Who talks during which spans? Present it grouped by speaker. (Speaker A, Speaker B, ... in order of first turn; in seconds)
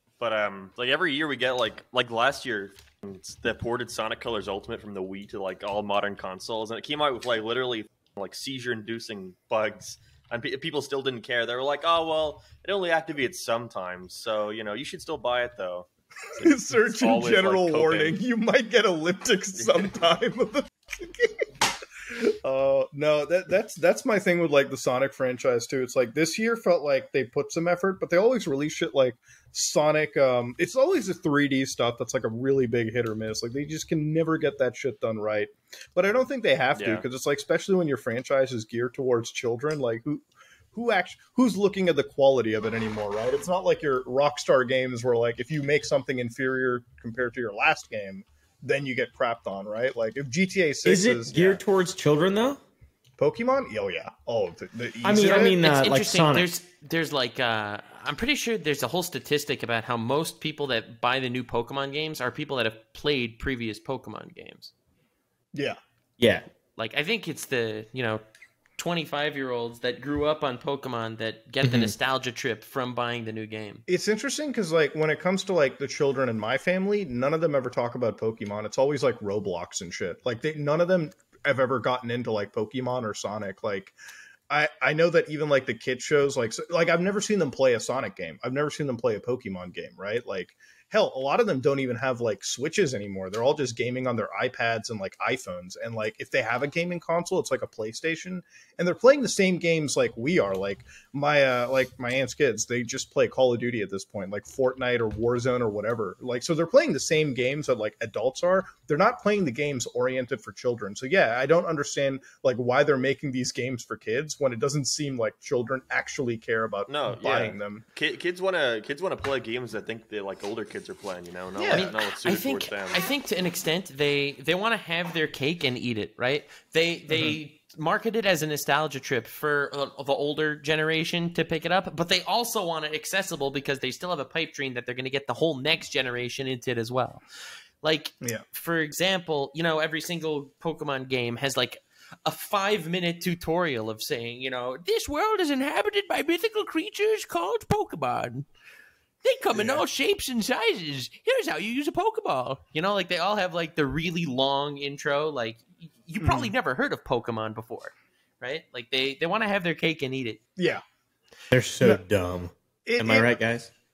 Speaker A: 0.2-18.2, 36.7-37.0, 116.9-123.0
Speaker B: 16.4-21.5, 22.1-51.6, 53.2-55.6, 65.5-65.8, 73.9-83.9, 84.5-117.8, 121.5-121.9, 127.1-127.3, 149.5-149.8, 156.2-156.5, 160.6-160.8, 162.8-163.3
Speaker C: 50.8-52.6, 55.0-56.5, 66.2-66.4, 71.6-71.9, 161.5-163.7
Speaker D: 55.1-64.7, 66.8-68.2, 68.8-73.8, 121.7-137.2, 137.8-148.5, 149.2-160.4